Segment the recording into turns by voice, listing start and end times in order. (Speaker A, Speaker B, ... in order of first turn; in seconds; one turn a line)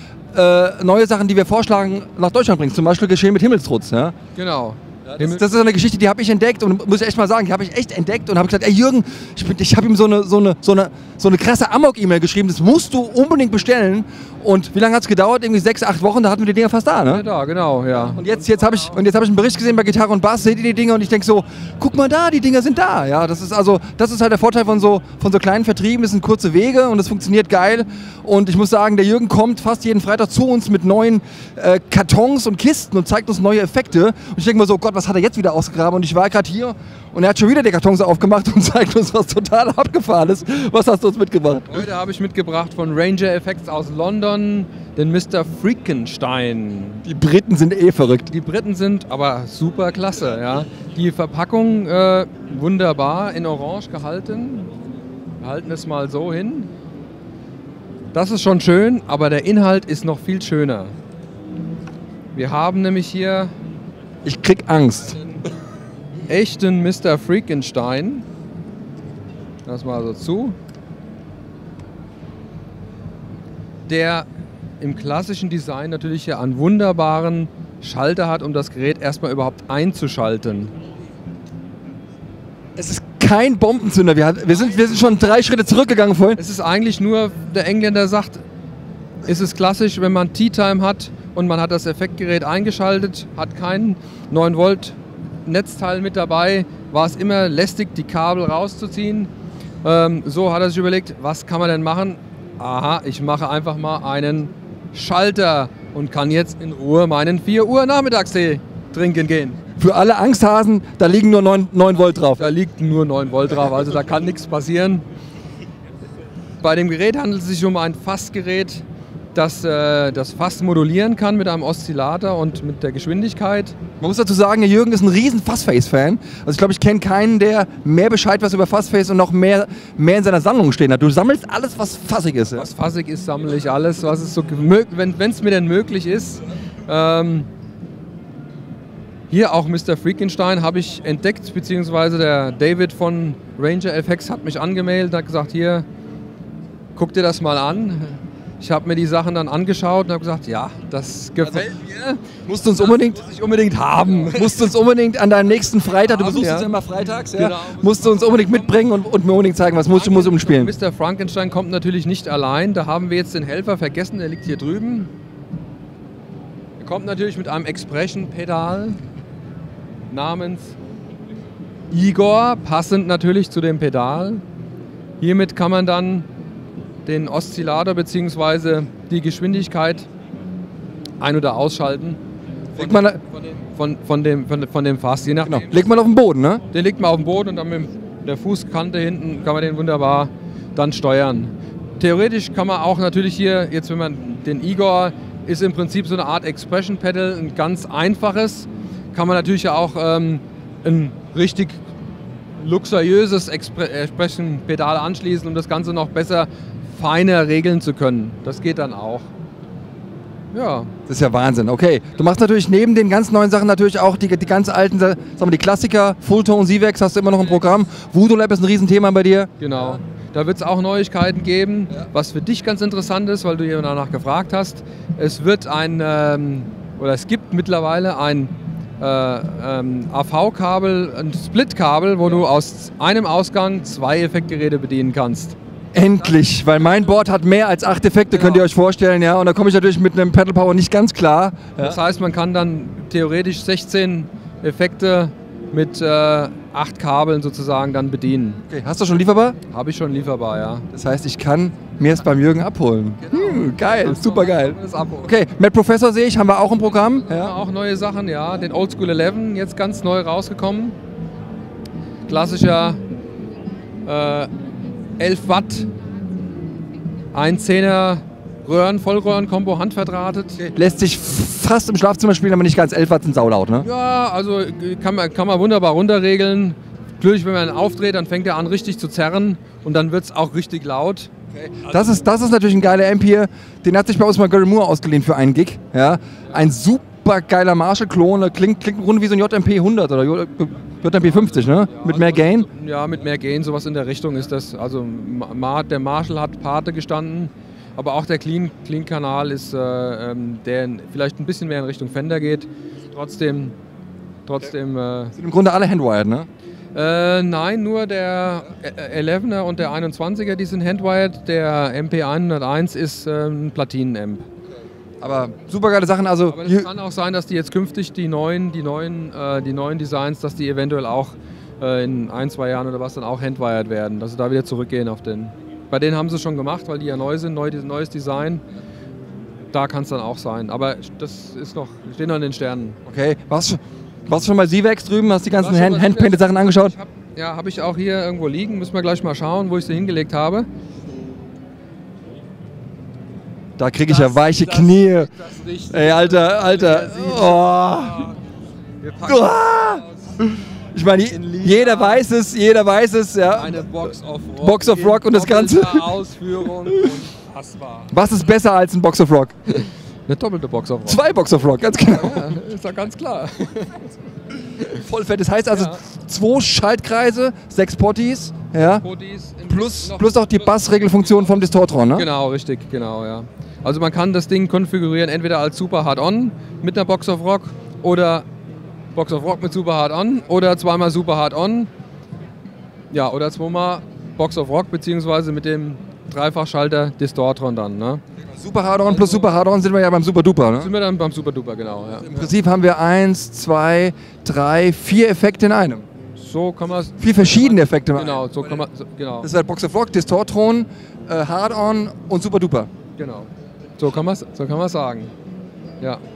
Speaker A: 0.3-4.1
Speaker B: 4.3-5.5
Speaker A: 5.1-17.2
Speaker B: 17.1-18.9
Speaker A: 18.1-41.9
Speaker B: 41.7-47.0
Speaker A: 47.0-48.3
Speaker B: 48.3-54.7
Speaker B: 55.4-56.7
Speaker B: 58.1-60.9
Speaker B: 62.3-63.5
Speaker A: 64.2-65.2
Speaker B: 66.3-68.2
Speaker B: 69.6-70.5
Speaker B: 73.9-74.3
Speaker B: 74.8-80.7
Speaker A: 82.8-86.4
Speaker B: 86.3-88.4
Speaker B: 89.2-99.3
Speaker B: 99.8-109.6
Speaker A: 109.8-112.5
Speaker B: 112.4-115.0
Speaker B: 116.6-123.8
Speaker A: 124.0-132.7
Speaker B: 132.5-137.5
Speaker B: 139.3-145.8
Speaker B: 146.9-151.8
Speaker A: 151.4-153.2
Speaker B: 152.7-154.7
Speaker A: 154.3-160.7
Speaker B: 156.0-156.8
Speaker B: 157.3-158.8
Speaker B: 159.9-165.1
Speaker B: 166.8-169.0
Speaker B: 170.1-170.8
Speaker B: 171.9-174.4
Speaker B: 175.2-176.3
Speaker B: 177.0-180.1
Speaker B: 181.2-182.2
Speaker B: 182.7-185.8
Speaker A: 182.7-183.2
Speaker A: 185.4-186.6
Speaker B: 186.7-201.8
Speaker B: 202.6-209.3
Speaker B: 210.5-210.9
Speaker A: 211.1-220.0
Speaker B: 219.6-235.6
Speaker A: 235.9-242.0
Speaker B: 236.2-237.1
Speaker B: 238.3-238.7
Speaker B: 241.8-248.6
Speaker A: 248.7-249.6
Speaker B: 249.7-250.9
Speaker A: 250.9-257.5
Speaker B: 253.2-255.4
Speaker B: 257.0-260.9
Speaker B: 262.3-263.0
Speaker B: 264.0-264.5
Speaker B: 265.2-265.9
Speaker B: 267.3-270.6
Speaker A: 270.6-273.9
Speaker B: 273.8-281.3
Speaker A: 281.5-292.7
Speaker B: 281.8-282.2
Speaker B: 291.2-303.7
Speaker B: 304.4-305.3
Speaker A: 305.4-306.5
Speaker B: 306.9-314.5
Speaker A: 315.2-316.9
Speaker B: 316.5-328.6
Speaker B: 329.7-333.0
Speaker A: 333.1-336.9
Speaker B: 335.5-340.7
Speaker A: 343.8-345.3
Speaker B: 344.0-348.4
Speaker A: 345.9-348.3
Speaker B: 349.0-350.2
Speaker A: 349.2-354.0
Speaker B: 351.3-352.2
Speaker B: 353.6-358.1
Speaker A: 354.6-356.1
Speaker A: 358.1-359.9
Speaker B: 360.3-361.2
Speaker A: 361.1-362.5
Speaker B: 362.0-364.1
Speaker A: 364.9-369.0
Speaker B: 365.7-366.0
Speaker B: 368.8-371.6
Speaker A: 369.7-372.3
Speaker B: 372.1-378.4
Speaker B: 379.1-381.9
Speaker B: 383.1-388.2
Speaker A: 388.4-390.9
Speaker B: 389.0-389.6
Speaker B: 390.8-392.5
Speaker A: 392.2-396.0
Speaker B: 396.3-399.5
Speaker A: 397.2-398.8
Speaker A: 399.4-402.9
Speaker B: 403.2-405.3